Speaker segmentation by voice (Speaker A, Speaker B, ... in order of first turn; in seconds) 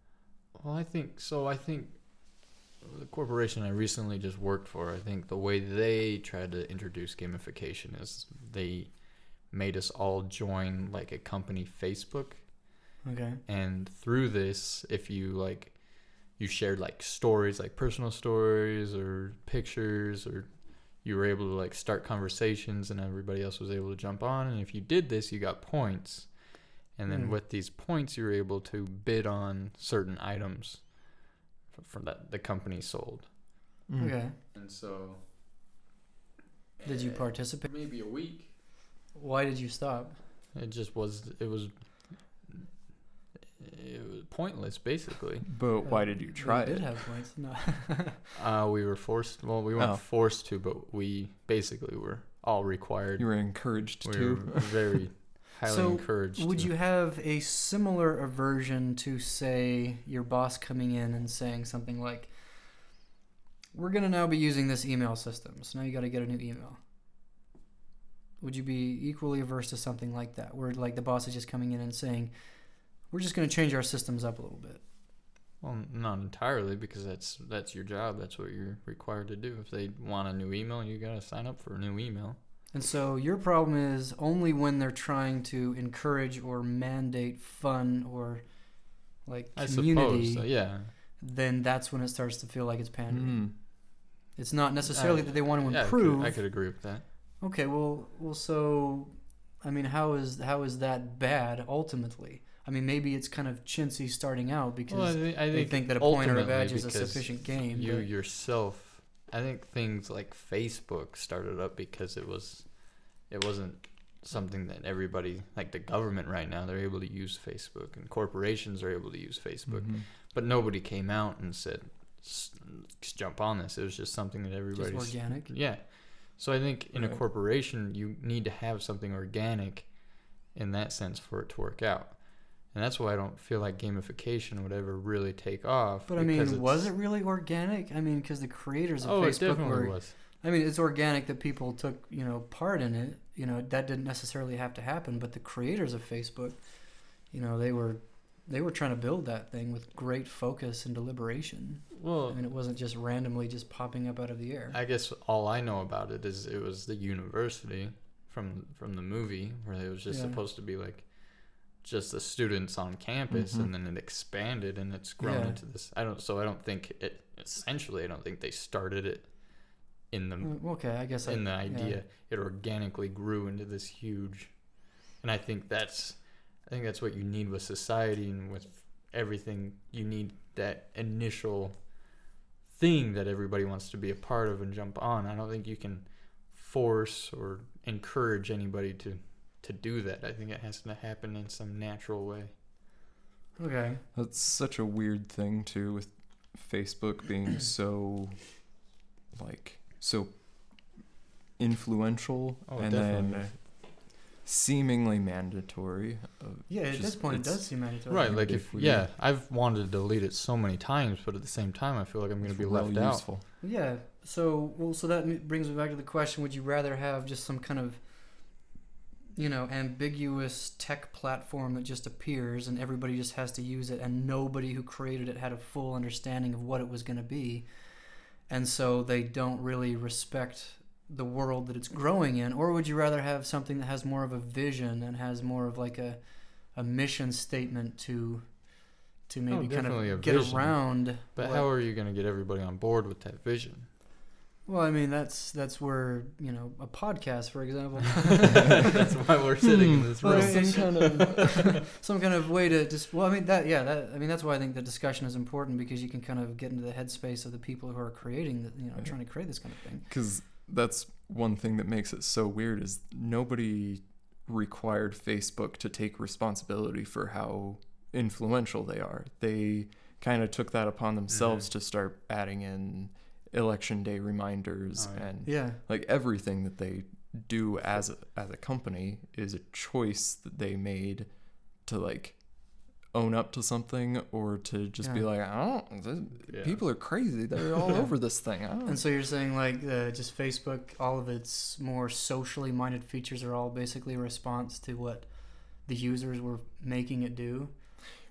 Speaker A: 0.5-12.9, 13.5-33.3, 34.5-35.3, 36.8-38.6, 40.5-45.6, 48.4-56.7, 75.6-82.4, 89.6-90.9, 94.9-97.0, 104.9-136.9, 139.0-140.2, 152.0-152.4, 154.7-192.5, 202.7-203.6, 208.1-213.3, 239.5-243.9, 248.4-251.5, 271.3-271.7, 275.0-275.3, 286.5-287.5
Speaker B: 13.0-13.4, 27.1-27.4, 34.0-34.4, 36.9-37.7, 39.1-40.2, 45.8-48.2, 55.6-63.0, 63.7-66.8, 68.4-74.8, 82.7-96.8, 97.4-108.1, 124.7-125.5, 136.1-154.8, 160.1-160.4, 165.2-165.6, 170.4-172.0, 193.6-194.0, 206.7-208.4, 213.6-218.7, 219.3-241.7, 244.7-248.9, 250.2-260.1, 275.4-275.8, 285.0-285.3, 288.0-297.7
Speaker C: 33.9-34.2, 45.5-46.9, 49.8-50.0, 53.2-54.9, 93.1-93.6, 119.7-120.1, 126.9-127.2, 163.3-163.7, 194.1-198.8, 199.3-209.1, 212.4-213.4, 250.2-251.8, 259.0-289.0